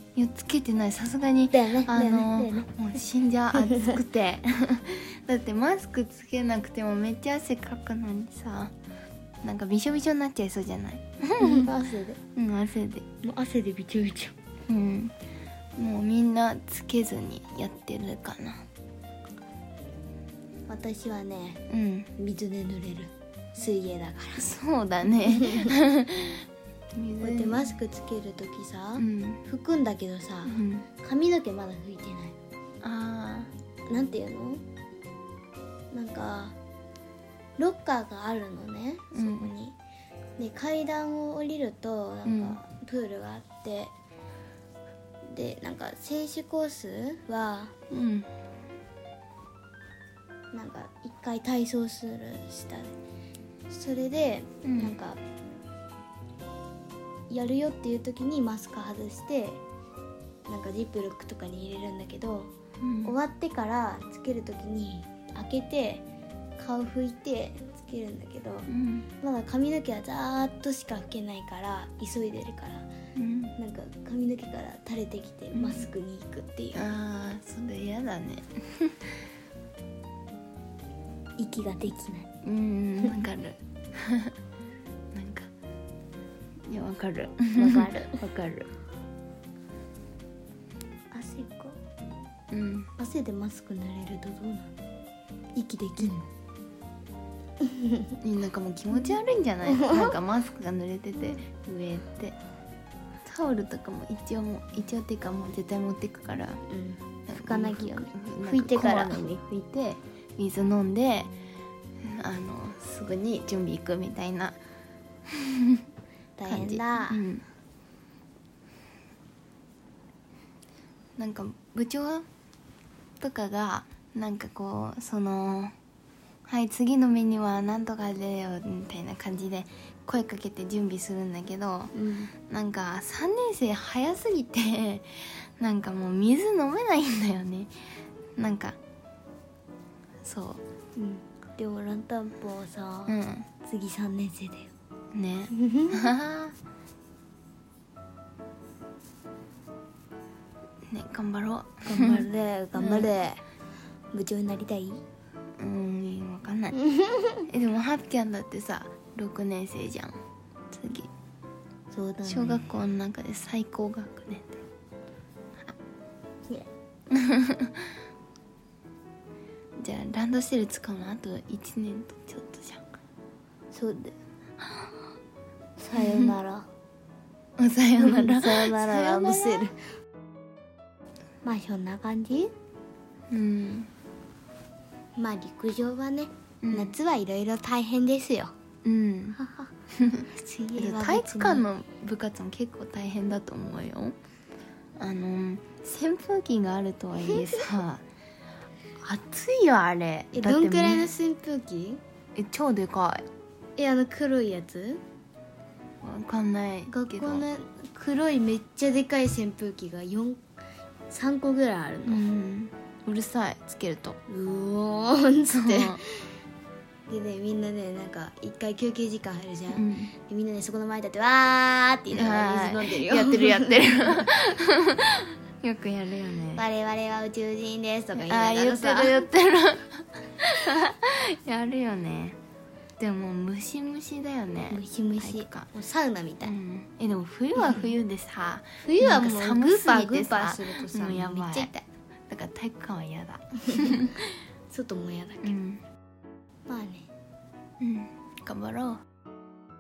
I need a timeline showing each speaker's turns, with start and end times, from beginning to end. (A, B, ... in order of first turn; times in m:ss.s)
0:00.2-0:08.7 A
0:01.5-0:02.7 B
0:03.6-0:03.9 B
0:09.4-0:11.7 A
0:11.4-0:12.2 B
0:12.4-0:13.0 A
0:13.2-0:14.4 B
0:14.7-0:15.2 A
0:15.8-0:18.6 A
0:20.7-0:21.6 B
0:21.7-0:22.1 A
0:22.2-0:24.5 B
0:24.4-0:26.4 A
0:25.3-0:25.7 B
0:27.0-0:27.7 A
0:27.2-0:32.4 B
0:29.0-0:29.4 A
0:30.5-0:30.9 A
0:32.8-0:33.5 A
0:33.9-0:34.6 B
0:35.9-0:36.6 B
0:37.6-0:39.8 B
0:39.1-0:39.5 A
0:40.4-0:43.9 B
0:42.2-0:42.6 A
0:45.3-0:47.7 B
0:47.9-0:48.3 A
0:50.5-0:53.0 B
0:53.7-0:55.2 B
0:54.6-0:55.0 A
0:57.3-0:59.6 B
1:00.5-1:02.5 B
1:02.8-1:03.1 A
1:03.0-1:06.0 B
1:06.6-1:08.7 B
1:08.7-1:09.1 A
1:09.2-1:12.9 B
1:13.2-1:13.6 A
1:13.6-1:16.9 B
1:15.5-1:15.9 A
1:16.7-1:19.0 A
1:21.4-1:22.3 B
1:22.4-1:24.3 A
1:23.0-1:23.3 B
1:25.1-1:25.5 A
1:26.7-1:28.7 A
1:27.6-1:28.2 B
1:31.1-1:31.8 B
1:32.5-1:32.9 A
1:33.0-1:34.7 B
1:35.6-1:36.2 B
1:37.6-1:38.1 B
1:38.2-1:42.4 A
1:39.7-1:40.2 B
1:43.2-1:46.6 A
1:46.7-1:49.2 B
1:47.3-1:51.3 A
1:52.0-1:54.6 A
1:55.3-1:55.8 A
1:56.4-1:57.2 B
1:56.5-1:57.4 A
2:01.2-2:02.3 A
2:03.2-2:05.7 A
2:06.5-2:11.9 A
2:11.9-2:12.3 B
2:12.5-2:17.7 A
2:18.4-2:18.8 A
2:20.2-2:20.6 A
2:21.0-2:24.7 B
2:23.1-2:23.5 A
2:25.1-2:26.6 A
2:25.5-2:26.0 B
2:30.9-2:33.1 A
2:31.9-2:33.4 B
2:34.1-2:35.0 B
2:35.6-2:36.8 A
2:37.0-2:37.3 B
2:37.5-2:40.2 A
2:40.7-2:41.1 A
2:41.9-2:42.7 B
2:42.3-2:44.6 A
2:47.1-2:47.8 A
2:49.8-2:52.8 A
2:53.7-2:54.2 B
2:55.8-2:56.7 B
2:56.0-2:56.3 A
2:57.6-2:59.6 A
2:58.0-2:59.8 B
3:01.4-3:02.5 B
3:03.3-3:03.9 A
3:05.2-3:08.5 B
3:06.6-3:07.0 A
3:08.8-3:09.4 A
3:09.4-3:09.7 B
3:10.0-3:14.2 A
3:10.3-3:11.7 B
3:15.0-3:18.0 A
3:19.0-3:21.1 A
3:20.3-3:22.0 B
3:22.4-3:23.3 A
3:23.8-3:25.0 B
3:26.0-3:27.4 A
3:26.9-3:30.4 B
3:31.1-3:32.2 B
3:32.0-3:34.2 A
3:34.3-3:36.3 B
3:35.5-3:36.0 A
3:37.1-3:44.3 B
3:39.7-3:40.1 A
3:42.1-3:46.6 A
3:46.5-3:49.3 B
3:48.2-3:52.4 A
3:53.0-3:55.7 A
3:54.7-3:56.6 B
3:56.4-4:04.4 A
3:58.8-4:01.7 B
4:04.7-4:05.6 B
4:05.4-4:05.8 A
4:06.7-4:07.1 B
4:07.8-4:09.0 A